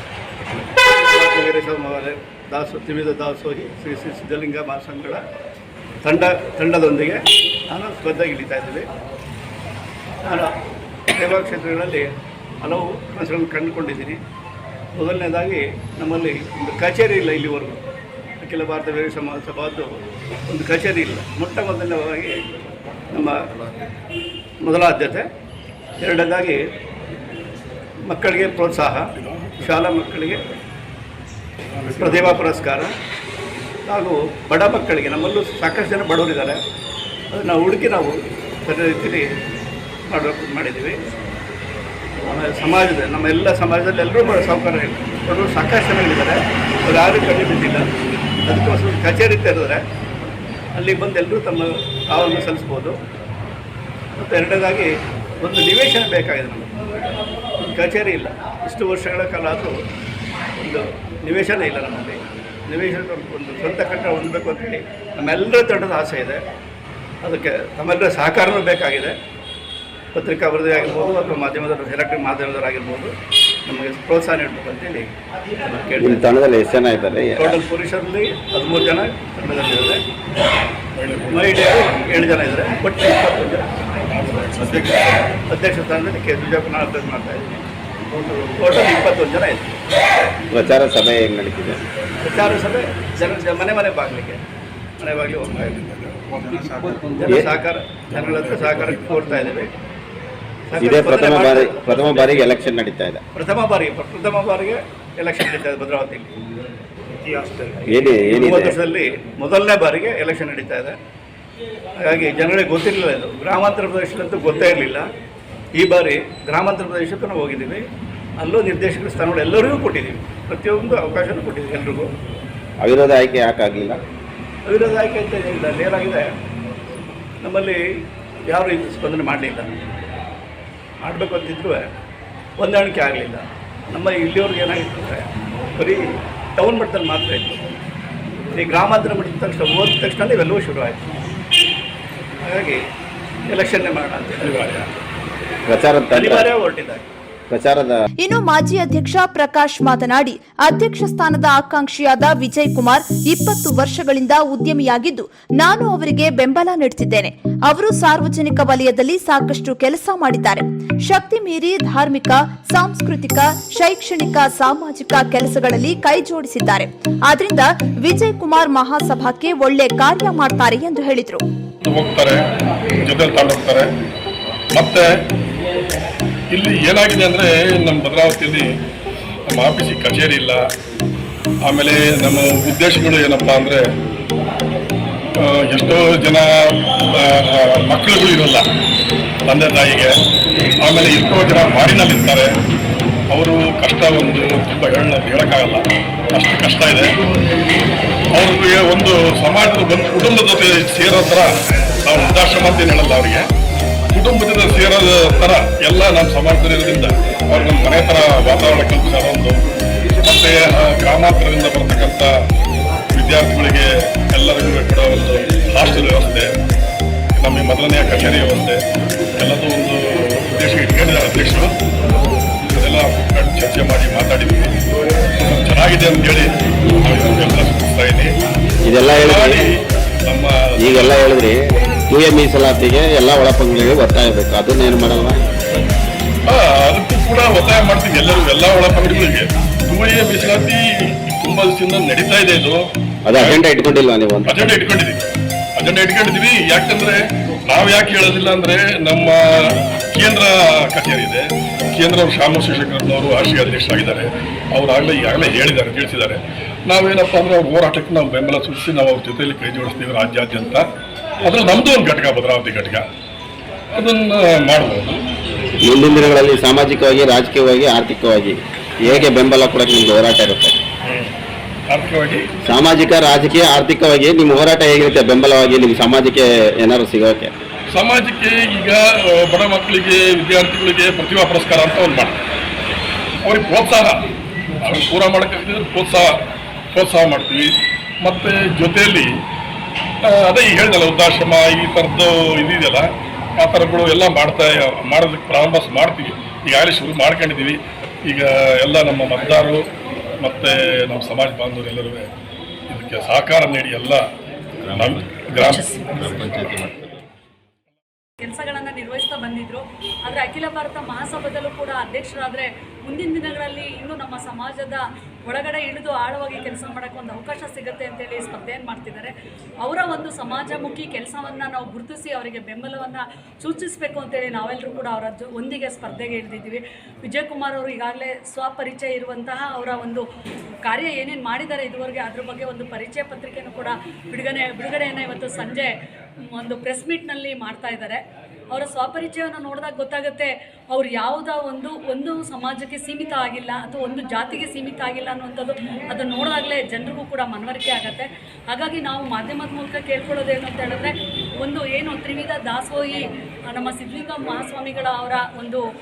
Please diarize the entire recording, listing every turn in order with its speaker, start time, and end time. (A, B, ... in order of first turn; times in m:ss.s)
0:00.8-0:05.2 A
0:06.0-0:08.9 A
0:10.2-0:10.5 A
0:11.1-0:12.1 A
0:12.6-0:14.2 A
0:15.0-0:17.8 A
0:18.4-0:19.9 A
0:20.5-0:22.4 A
0:23.1-0:23.4 A
0:24.6-0:25.3 A
0:26.0-0:26.6 A
0:28.1-0:29.1 A
0:29.2-0:29.8 B
0:29.6-0:30.5 A
0:31.8-0:32.4 B
0:31.9-0:32.9 A
0:33.9-0:36.6 A
0:37.3-0:39.2 A
0:40.1-0:41.0 A
0:42.2-0:47.9 A
0:48.4-0:49.8 A
0:50.8-0:53.0 A
0:54.2-0:54.9 A
0:55.4-0:56.7 A
0:57.7-0:59.7 A
1:00.6-1:06.4 A
1:07.2-1:09.2 A
1:10.1-1:13.1 A
1:13.7-1:15.1 A
1:15.6-1:16.4 A
1:16.0-1:17.6 C
1:17.4-1:20.0 A
1:21.0-1:21.6 B
1:21.3-1:23.6 A
1:24.1-1:25.1 B
1:25.5-1:27.6 A
1:28.6-1:29.8 A
1:30.5-1:31.8 C
1:32.2-1:34.4 A
1:35.0-1:35.8 A
1:35.4-1:36.8 B
1:36.9-1:39.7 A
1:38.1-1:39.2 B
1:40.7-1:42.4 A
1:40.8-1:43.2 C
1:43.3-1:46.3 A
1:47.2-1:51.0 A
1:47.8-1:48.8 C
1:52.0-1:55.1 A
1:55.8-1:57.8 A
1:58.4-2:02.1 A
2:02.8-2:04.0 C
2:04.6-2:06.3 A
2:07.4-2:07.8 A
2:08.5-2:09.7 A
2:11.0-2:11.9 A
2:12.6-2:16.0 A
2:16.6-2:17.6 A
2:18.5-2:21.1 A
2:22.4-2:22.8 A
2:23.5-2:24.8 A
2:24.5-2:24.9 B
2:25.6-2:26.5 C
2:26.1-2:27.0 A
2:27.5-2:28.0 C
2:28.2-2:51.4 D
2:51.8-2:52.4 B
2:53.0-2:53.9 B
2:54.7-2:55.1 B
2:56.5-2:58.6 B
2:59.5-3:00.6 B
3:01.6-3:03.8 B
3:05.4-3:08.6 B
3:09.5-3:10.1 B
3:10.8-3:12.5 B
3:13.3-3:17.1 B
3:18.3-3:21.5 B
3:22.0-3:23.4 B
3:24.1-3:29.6 B
3:30.2-3:32.3 B
3:33.1-3:36.5 B
3:37.4-3:38.8 B
3:39.4-3:41.7 B
3:42.7-3:48.4 B
3:48.8-3:49.6 C
3:49.2-3:51.1 B
3:50.8-3:55.4 C
3:56.4-4:03.6 B
4:03.3-4:04.7 C
4:04.4-4:20.9 B
4:21.4-4:23.0 B
4:23.9-4:25.2 B
4:25.8-4:30.8 C
4:31.1-4:31.3 B
4:31.9-4:32.5 B
4:32.6-4:37.5 C
4:37.9-4:42.4 B
4:43.4-4:44.2 B
4:44.8-4:46.4 B
4:46.9-4:47.7 B
4:48.2-4:49.3 B
4:50.2-4:59.8 B
5:00.4-5:02.3 B
5:02.9-5:04.2 B
5:04.9-5:06.5 B
5:06.1-5:06.9 C
5:08.4-5:30.2 E
5:30.9-5:36.0 E
5:36.5-5:55.8 E